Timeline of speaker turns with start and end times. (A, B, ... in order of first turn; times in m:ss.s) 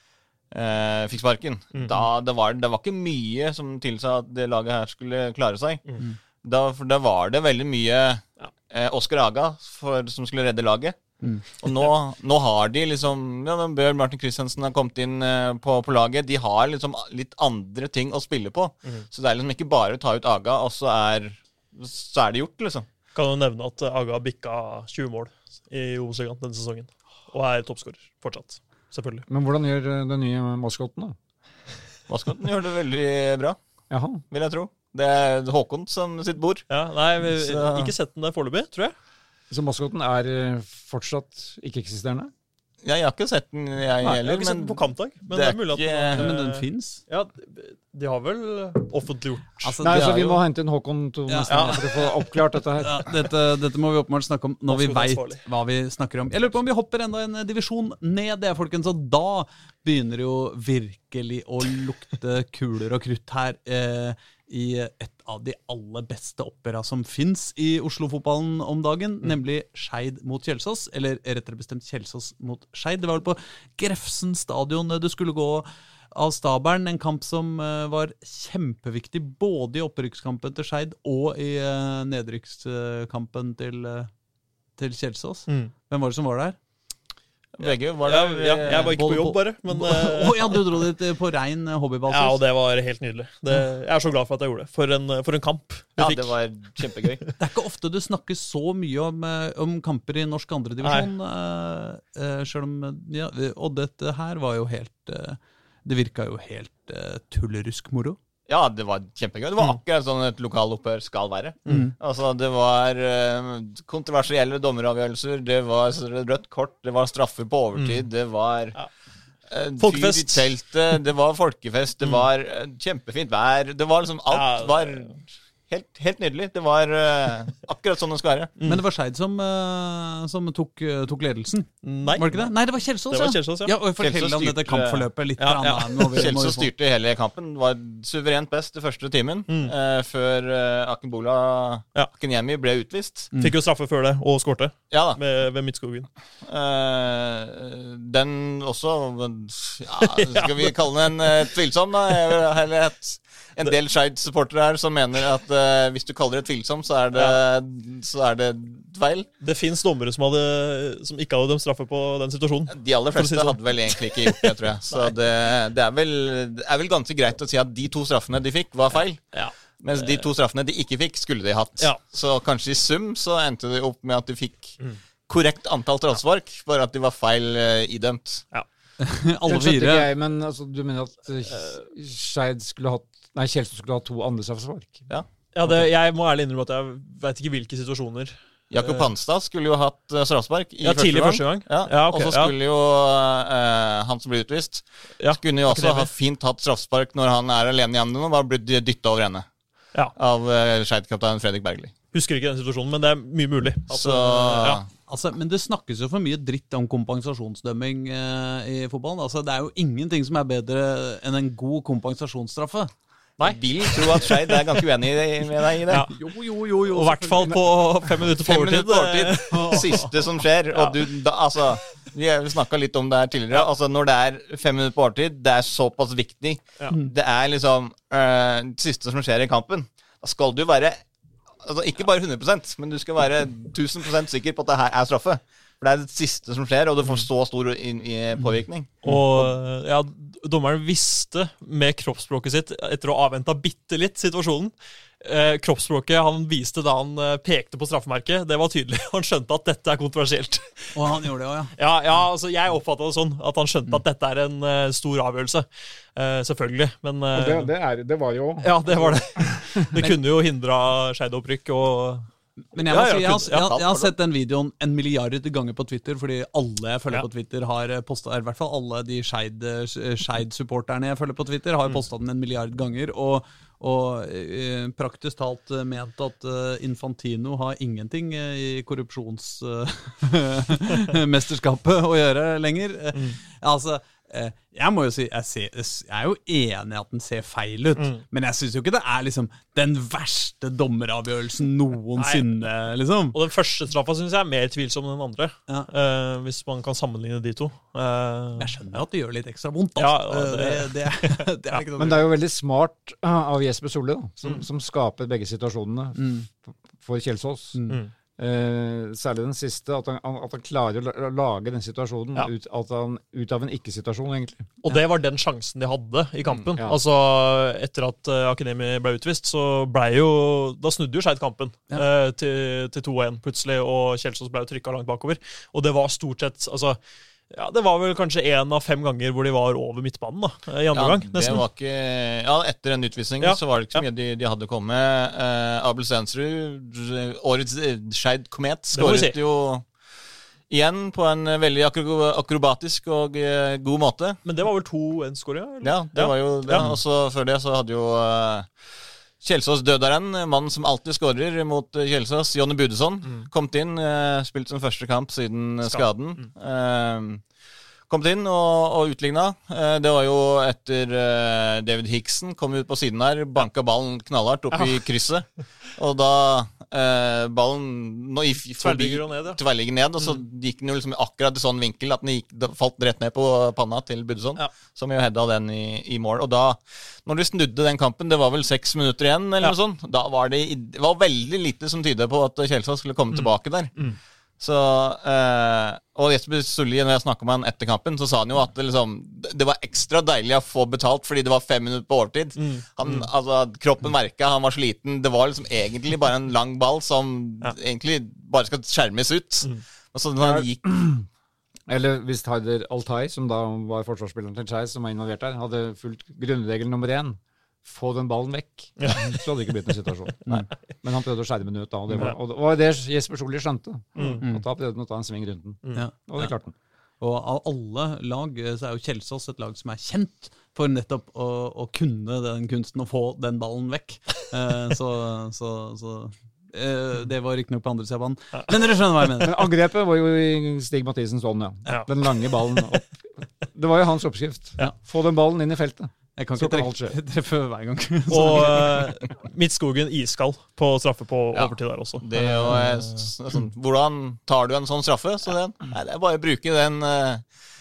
0:00.5-0:11.0 A
0:01.7-0:02.0 B
0:11.6-0:22.9 A
0:23.1-0:29.2 B
0:29.3-0:31.2 C
0:32.1-0:33.6 A
0:33.9-0:34.2 C
0:34.3-0:36.7 A
0:36.7-0:38.9 B
0:37.2-0:37.9 A
0:39.5-0:42.3 C
0:42.8-0:46.3 A
0:44.0-0:49.8 B
0:46.1-0:47.0 D
0:49.6-0:50.2 D
0:49.8-0:53.1 C
0:49.9-0:50.4 A
0:51.3-0:52.2 D
0:51.5-0:52.1 B
0:52.8-1:24.1 D
0:54.7-0:55.4 B
1:24.8-1:26.6 D
1:25.5-1:25.7 B
1:27.6-1:29.1 A
1:27.6-1:30.9 B
1:28.6-1:32.4 D
1:32.1-1:36.9 B
1:36.0-1:37.3 A
1:37.4-1:48.2 D
1:40.8-1:41.1 B
1:48.5-1:58.8 A
1:51.6-1:51.9 D
1:57.8-1:58.0 B
1:59.5-2:08.5 A
1:59.8-2:00.5 B
2:04.3-2:05.1 B
2:08.6-2:08.8 B
2:08.6-2:16.7 D
2:11.8-2:12.5 B
2:13.1-2:13.7 B
2:14.0-2:15.1 A
2:15.4-2:16.3 B
2:16.1-2:23.3 A
2:19.5-2:19.7 B
2:23.4-2:26.1 B
2:24.9-2:25.2 A
2:26.4-2:39.3 A
2:30.0-2:31.5 B
2:37.1-2:37.4 B
2:39.4-2:45.1 B
2:42.7-2:58.4 A
2:49.3-2:50.3 B
2:59.0-3:00.1 D
2:59.4-3:05.1 C
3:05.5-3:09.1 B
3:08.7-3:19.5 A
3:10.8-3:12.5 B
3:15.2-3:16.1 B
3:20.1-3:21.9 A
3:22.1-3:24.8 B
3:23.9-3:24.9 A
3:25.1-3:32.9 D
3:33.4-3:34.8 B
3:33.4-3:36.1 A
3:35.9-3:36.2 B
3:36.1-3:37.6 D
3:36.8-3:40.0 B
3:38.2-3:51.0 A
3:39.5-3:40.1 D
3:40.7-3:41.0 B
3:51.6-3:59.5 A
3:59.0-4:11.0 B
4:10.9-4:11.7 D
4:11.8-4:17.7 B
4:17.3-4:20.0 C
4:18.6-4:22.3 B
4:22.7-4:53.4 D
4:22.9-4:23.5 B
4:22.9-4:24.1 A
4:48.0-4:48.2 B
4:52.2-4:52.5 B
4:53.3-4:58.7 B
4:58.6-5:02.2 D
5:00.0-5:02.1 B
5:02.0-5:07.8 C
5:06.2-5:06.5 D
5:07.7-5:08.0 D
5:08.4-5:14.7 C
5:14.8-5:27.0 B
5:16.7-5:17.0 C
5:27.5-5:31.6 B
5:30.9-5:39.9 A
5:33.4-5:34.0 B
5:38.9-5:39.4 B
5:40.7-5:44.4 A
5:44.4-5:47.0 B
5:45.8-5:48.7 A
5:49.4-5:57.4 A
5:55.8-5:56.5 B
5:58.1-6:23.9 A
6:08.8-6:09.6 B
6:23.3-6:24.2 B
6:24.6-6:40.8 A
6:32.6-6:33.3 B
6:40.4-6:41.2 C
6:41.9-6:56.7 C
6:49.0-6:49.4 B
6:54.2-6:54.4 B
6:55.8-6:56.5 B
6:57.2-7:09.7 D
7:09.4-7:17.2 C
7:11.9-7:13.0 B
7:16.4-7:19.1 D
7:18.3-7:23.3 B
7:21.5-7:27.4 A